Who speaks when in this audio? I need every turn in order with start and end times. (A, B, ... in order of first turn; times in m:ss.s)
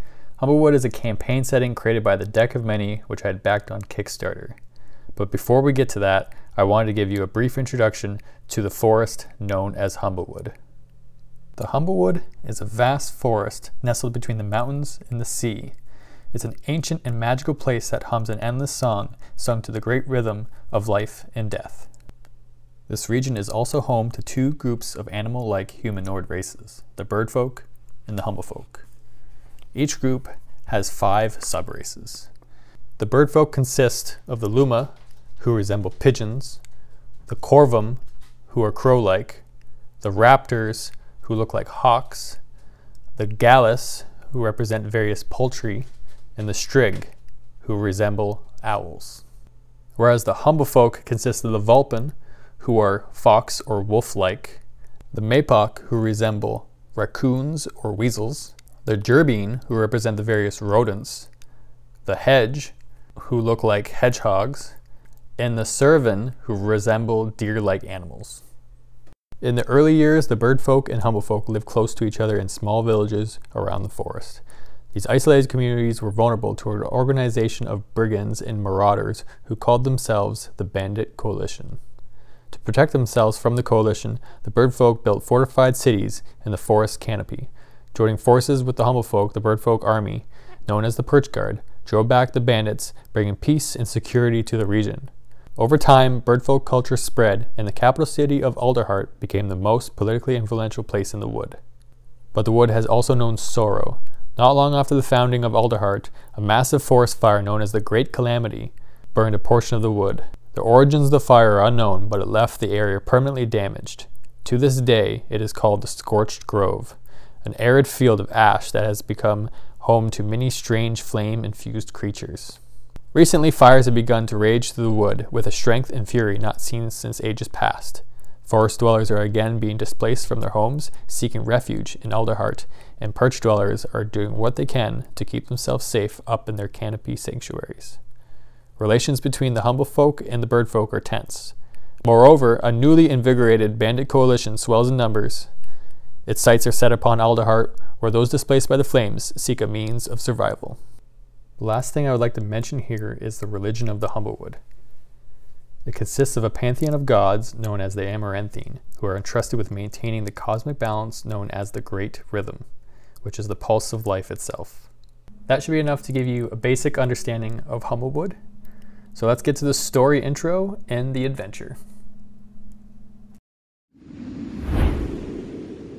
0:00.4-0:04.6 A
0:05.1-0:10.5 A
0:11.6-0:15.7 A
0:16.3-0:21.9 A
0:22.9-0:28.8 A
0:29.7-0:32.3 A
0:33.0-0:36.6 A
0:37.3-0:39.4 A
0:40.0-0:42.4 A
0:43.2-0:49.2 A
0:50.0-0:54.6 A
0:55.1-1:01.3 A
1:02.0-1:04.7 A
1:05.4-1:08.4 A
1:09.4-1:14.4 A
1:14.9-1:21.8 A
1:22.5-1:41.6 A
1:42.3-2:02.6 A
2:03.1-2:18.0 A
2:18.8-2:25.5 A
2:26.2-2:30.8 A
2:31.6-2:34.6 A
2:35.8-2:42.6 A
2:43.2-2:44.9 A
2:45.5-2:48.4 A
2:49.1-2:51.8 A